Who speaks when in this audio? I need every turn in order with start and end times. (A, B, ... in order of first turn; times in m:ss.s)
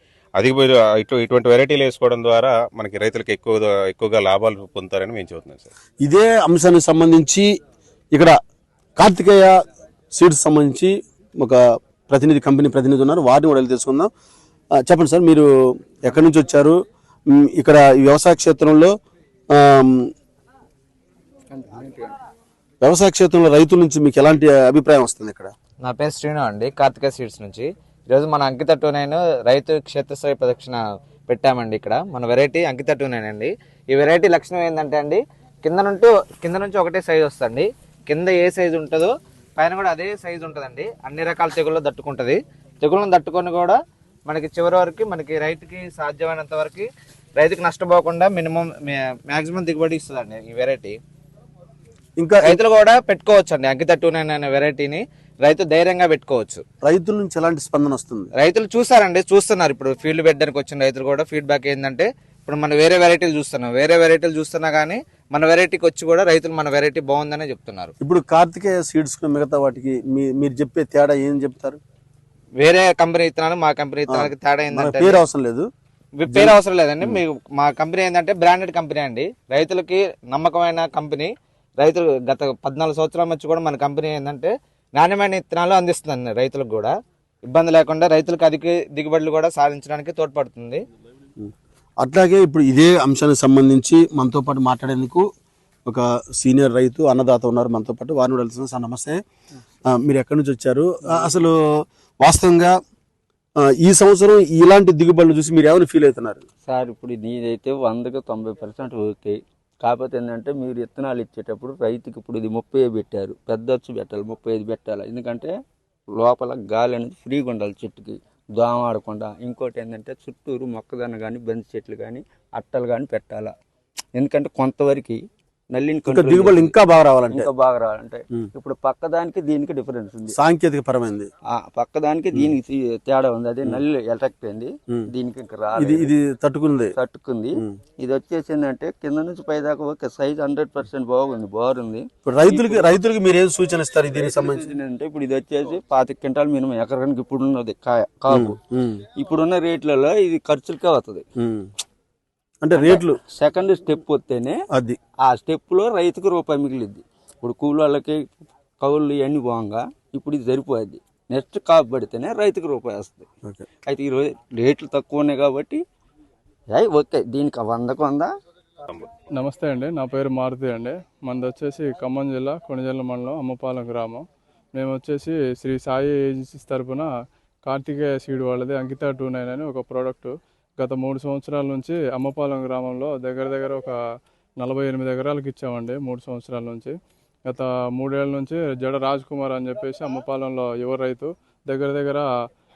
0:00.4-0:05.7 A
0:06.0-0:07.5 B
0:09.0-0:09.5 B
0:10.1-0:14.1 B
0:14.8-0:16.8 B
0:17.3-0:18.9 B
0:19.5-0:20.1 B
0:21.5-0:22.1 C
0:22.8-0:25.5 B
0:25.8-0:51.0 D
0:52.2-0:52.6 B
0:52.4-0:56.6 D
0:56.8-0:58.3 B
0:58.3-1:07.9 D
1:08.0-1:11.8 B
1:12.6-1:15.2 D
1:14.1-1:15.7 B
1:16.2-1:26.9 D
1:16.2-1:17.2 B
1:27.5-1:30.8 D
1:32.0-1:35.2 B
1:35.9-1:39.2 B
1:39.9-1:41.5 B
1:42.2-1:42.7 B
1:43.6-1:46.4 B
1:46.6-1:55.5 C
1:56.2-2:03.5 C
2:04.2-2:05.2 C
2:05.7-2:06.7 C
2:06.1-2:07.5 B
2:07.3-2:10.3 C
2:10.3-2:11.3 B
2:11.5-2:16.1 C
2:15.7-2:16.9 B
2:17.0-2:22.8 C
2:22.2-2:24.6 B
2:24.1-2:28.5 C
2:28.3-2:29.0 B
2:29.2-2:31.2 C
2:31.4-2:31.7 B
2:32.6-2:33.2 B
2:32.8-2:34.6 C
2:34.7-2:35.0 B
2:35.2-2:38.2 C
2:38.8-2:43.2 C
2:43.8-2:45.8 C
2:46.7-2:48.3 C
2:49.4-2:57.1 E
2:57.6-3:04.0 E
3:04.6-3:07.0 E
3:07.5-3:12.2 E